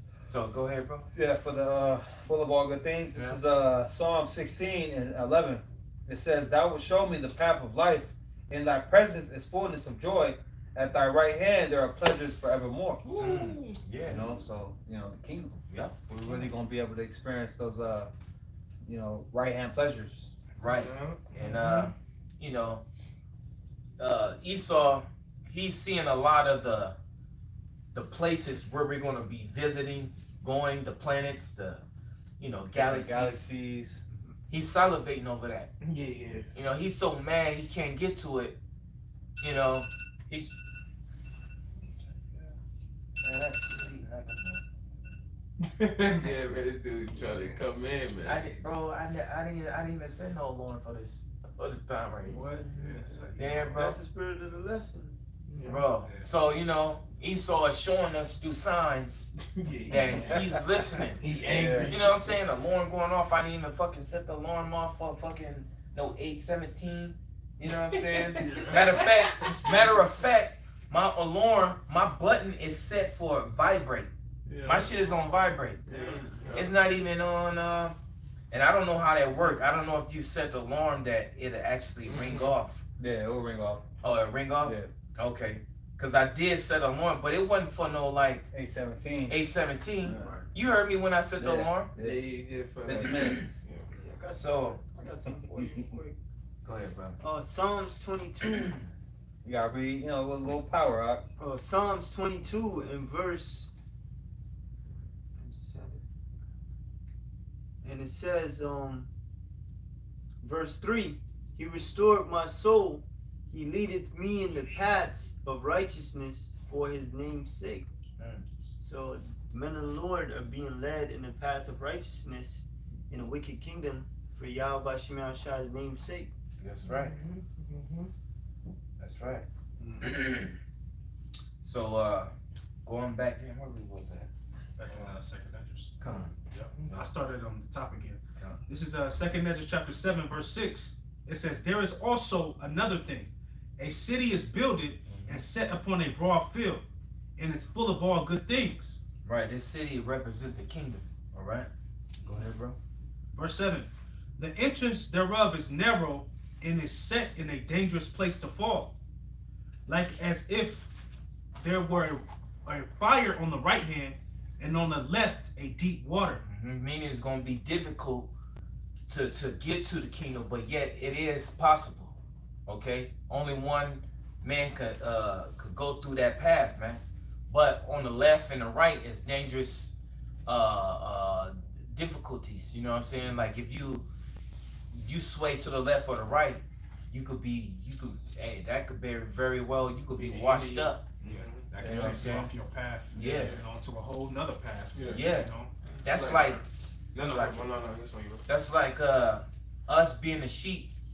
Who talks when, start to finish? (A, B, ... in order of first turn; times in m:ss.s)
0:00.3-0:01.1 A
0:01.1-0:13.0 B
0:03.1-0:03.4 A
0:13.0-0:13.8 C
0:13.2-0:14.4 A
0:14.0-0:18.1 B
0:15.7-0:15.9 A
0:18.8-0:20.3 B
0:20.6-0:22.8 A
0:20.6-0:21.9 C
0:24.0-0:27.0 A
0:27.9-0:31.8 A
0:32.4-0:33.4 A
0:32.7-0:34.0 B
0:34.5-0:35.7 A
0:35.8-0:36.5 C
0:36.5-0:38.6 A
0:39.4-0:40.5 A
0:43.2-0:44.6 A
0:45.6-0:48.5 C
0:47.1-0:47.6 D
0:48.2-0:52.4 A
0:52.3-0:52.9 C
0:52.3-0:53.8 D
0:52.4-0:55.2 E
0:53.4-0:54.0 A
0:55.5-0:55.8 C
0:55.6-0:59.3 A
0:56.0-0:56.3 D
0:59.5-1:02.4 C
0:59.9-1:14.1 A
1:00.0-1:00.5 B
1:01.4-1:01.9 B
1:07.9-1:10.0 C
1:14.4-1:14.9 C
1:14.6-1:15.8 A
1:15.8-1:16.7 C
1:15.9-1:16.4 E
1:16.5-1:18.0 A
1:18.5-1:22.8 A
1:22.0-1:22.5 C
1:23.0-1:23.9 B
1:24.0-1:28.4 A
1:24.6-1:24.9 B
1:28.5-1:29.4 B
1:29.3-1:31.9 A
1:30.0-1:30.4 B
1:30.2-1:30.4 D
1:31.4-1:32.2 B
1:32.0-1:33.9 C
1:32.8-1:33.6 B
1:33.1-1:33.4 A
1:33.9-1:36.2 E
1:34.3-1:34.8 A
1:35.3-1:36.0 B
1:36.6-1:37.2 A
1:37.2-1:38.9 E
1:39.4-1:41.2 B
1:41.4-1:43.7 E
1:45.4-1:46.0 E
1:47.8-1:49.1 E
1:50.4-1:57.9 E
1:58.2-1:58.4 A
1:58.8-2:06.3 E
2:06.6-2:07.2 A
2:06.8-2:08.1 C
2:09.0-2:09.4 A
2:09.8-2:10.2 D
2:10.0-2:10.6 A
2:11.6-2:12.3 A
2:12.8-2:14.3 A
2:14.8-2:16.0 D
2:16.0-2:16.3 A
2:16.0-2:16.8 C
2:16.5-2:26.8 D
2:25.1-2:25.4 A
2:27.4-2:29.0 D
2:29.2-2:31.7 A
2:32.2-2:32.8 A
2:33.3-2:38.9 D
2:39.9-2:40.9 D
2:41.5-2:46.4 D
2:46.4-2:48.3 A
2:49.1-2:59.9 A
3:00.4-3:04.1 A
3:04.9-3:11.1 A
3:10.2-3:12.4 C
3:11.2-3:15.7 D
3:11.8-3:12.5 A
3:13.1-3:13.6 A
3:13.1-3:13.6 C
3:14.9-3:15.2 C
3:15.1-3:15.5 A
3:16.0-3:16.6 A
3:16.0-3:18.4 C
3:17.2-3:17.7 A
3:18.4-3:20.9 A